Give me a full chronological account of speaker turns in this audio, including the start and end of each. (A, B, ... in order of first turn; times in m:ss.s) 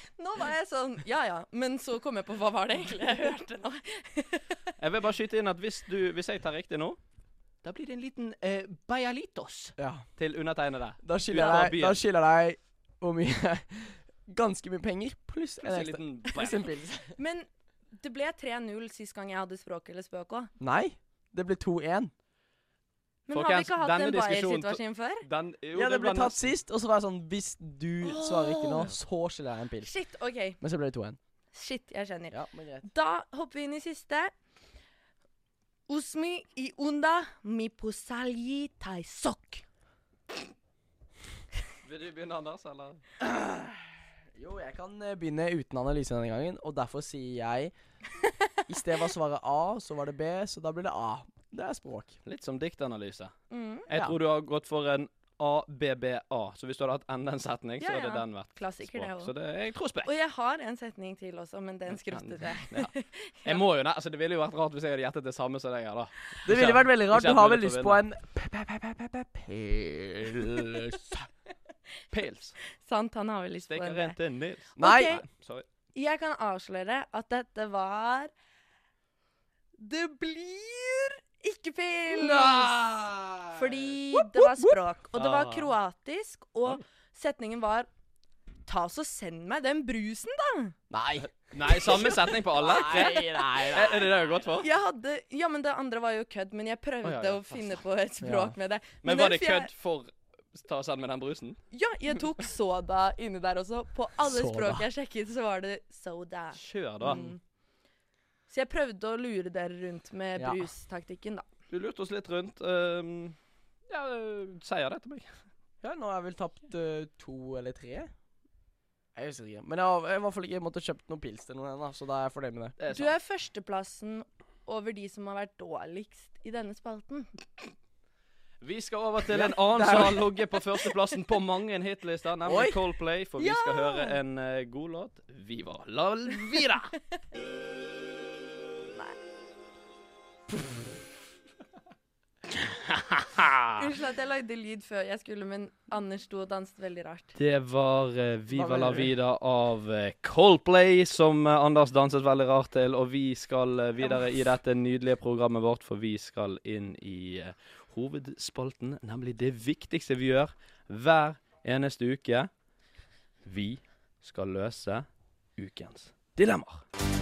0:00.2-0:04.6 A
0:04.8-0:07.0 B
0:07.6-0:12.0 B
0:09.8-0:10.0 C
0:11.0-0:17.2 C
0:15.6-0:16.7 B
0:17.2-0:20.5 A
0:20.6-0:22.1 C
0:23.3-0:25.2 A
0:23.3-0:26.5 B
0:25.7-0:29.9 C
0:28.0-0:28.9 A
0:29.8-0:30.6 A
0:30.6-0:31.2 C
0:31.5-0:34.3 A
0:32.3-0:32.9 C
0:35.9-0:39.6 A
0:41.8-0:43.0 B
0:43.2-0:47.7 C
0:48.7-0:52.2 C
0:52.2-0:53.3 B
0:53.5-0:53.9 A
0:53.9-1:00.1 B
0:57.8-0:59.3 A
1:00.0-1:03.6 A
1:01.9-1:02.9 B
1:03.4-1:08.0 B
1:06.4-1:11.2 C
1:10.6-1:10.8 B
1:12.1-1:12.6 B
1:12.8-1:14.2 A
1:13.6-1:15.6 B
1:14.8-1:15.2 C
1:14.8-1:15.2 A
1:15.9-1:18.3 A
1:19.8-1:22.7 A
1:22.2-1:23.5 B
1:23.5-1:27.9 A
1:25.1-1:25.7 B
1:28.6-1:30.8 A
1:30.9-1:34.1 C
1:31.5-1:34.7 B
1:32.6-1:33.8 A
1:34.6-1:39.7 A
1:37.0-1:37.6 B
1:38.2-1:38.5 C
1:39.0-1:41.6 B
1:41.7-1:47.4 A
1:44.2-1:44.8 C
1:46.5-1:47.2 B
1:47.0-1:47.4 C
1:48.5-1:51.5 A
1:50.4-1:50.6 C
1:51.7-1:53.4 B
1:53.9-1:55.3 B
1:55.8-1:58.1 C
1:59.1-2:02.8 C
2:02.8-2:03.1 B
2:02.9-2:07.3 A
2:08.6-2:16.9 B
2:09.3-2:10.4 C
2:12.4-2:12.8 C
2:13.4-2:14.2 A
2:22.5-2:23.7 B
2:23.8-2:27.4 A
2:27.4-2:42.5 B
2:28.5-2:29.1 C
2:43.4-2:45.0 B
2:45.6-2:46.8 B